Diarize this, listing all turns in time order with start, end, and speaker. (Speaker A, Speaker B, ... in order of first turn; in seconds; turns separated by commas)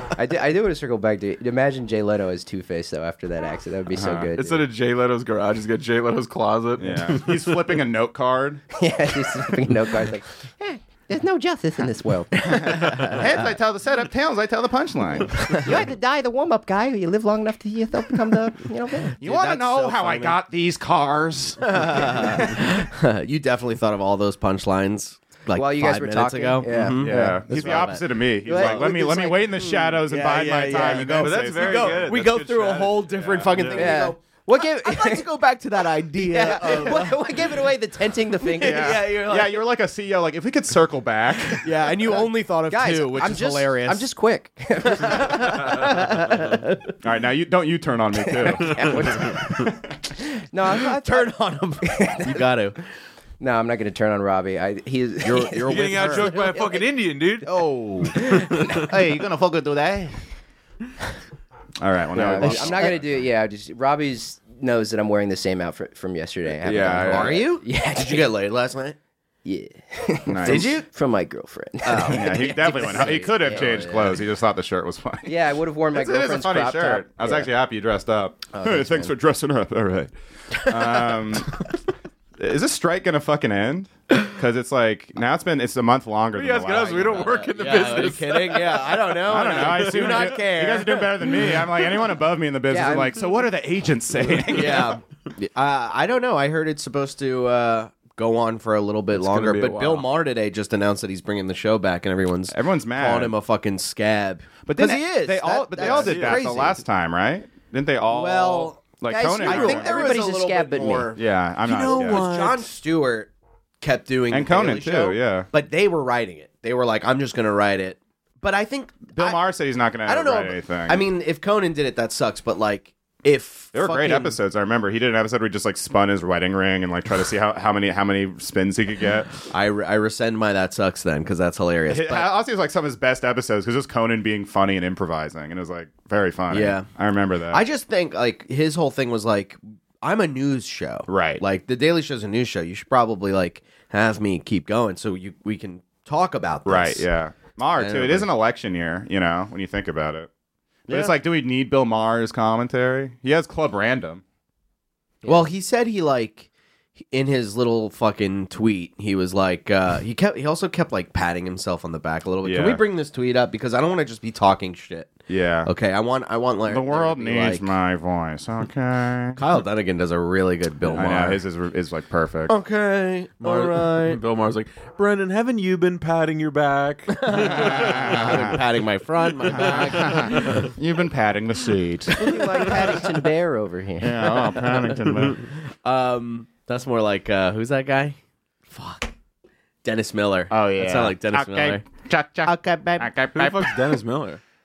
Speaker A: 0.1-4.6, Speaker B: 3.9-4.3, Speaker C: 4.3-7.8, Speaker B: 6.8-8.6, Speaker A: 8.7-13.5, Speaker B: 12.5-15.8, Speaker D: 12.7-13.2, Speaker A: 15.6-19.1, Speaker D: 19.1-20.4, Speaker B: 19.2-22.6, Speaker D: 21.6-37.5, Speaker A: 25.5-29.7, Speaker B: 27.0-32.0, Speaker C: 30.9-33.9, Speaker B: 33.5-33.8, Speaker A: 33.7-35.3, Speaker A: 36.2-39.1, Speaker D: 38.3-39.6, Speaker B: 38.6-42.0, Speaker D: 41.6-44.0, Speaker A: 42.7-46.8, Speaker D: 45.0-46.4, Speaker B: 47.0-49.4, Speaker A: 48.2-52.4, Speaker C: 48.7-49.5, Speaker D: 50.9-52.8, Speaker A: 53.4-56.9, Speaker D: 55.2-56.6, Speaker C: 55.6-57.5, Speaker B: 57.5-58.2, Speaker C: 58.1-58.8, Speaker A: 58.1-58.9, Speaker B: 58.9-60.2, Speaker B: 61.8-63.0, Speaker A: 62.1-68.3, Speaker D: 62.4-63.0, Speaker B: 66.6-67.4, Speaker D: 67.0-69.0, Speaker A: 69.4-74.2, Speaker B: 70.3-70.7, Speaker D: 70.4-70.9, Speaker D: 71.8-74.1, Speaker B: 72.0-75.3, Speaker A: 75.2-77.5, Speaker B: 75.9-81.7, Speaker A: 78.5-79.1, Speaker B: 82.4-87.4, Speaker C: 86.3-90.3, Speaker D: 87.5-91.5, Speaker B: 89.2-95.0, Speaker A: 92.7-93.3, Speaker D: 94.5-106.8, Speaker C: 99.1-100.0, Speaker B: 102.5-103.3, Speaker B: 104.6-110.1, Speaker C: 105.8-106.4, Speaker D: 108.1-119.4, Speaker A: 109.1-111.1, Speaker B: 111.1-112.3, Speaker C: 111.6-112.7, Speaker B: 114.3-115.5, Speaker B: 119.1-121.0, Speaker D: 120.0-124.4, Speaker B: 123.7-129.4, Speaker D: 129.5-132.3, Speaker B: 131.9-137.6, Speaker D: 136.5-136.9, Speaker D: 137.5-147.1, Speaker B: 141.1-141.4, Speaker B: 146.7-150.3, Speaker D: 147.8-148.3, Speaker D: 150.9-151.1, Speaker B: 150.9-154.2, Speaker D: 155.2-156.5, Speaker D: 157.1-167.7, Speaker B: 162.4-162.8, Speaker B: 165.3-165.7, Speaker B: 166.7-169.4, Speaker D: 169.4-171.4, Speaker B: 170.9-172.5, Speaker D: 172.5-174.2, Speaker C: 173.4-178.6, Speaker D: 177.1-180.7, Speaker B: 177.3-178.6, Speaker B: 179.5-182.3, Speaker C: 179.5-180.7, Speaker A: 182.2-184.6, Speaker D: 182.2-183.1, Speaker B: 184.0-185.5, Speaker D: 185.5-189.1, Speaker D: 189.8-191.8, Speaker B: 190.5-193.8, Speaker D: 192.4-193.1, Speaker C: 193.3-194.4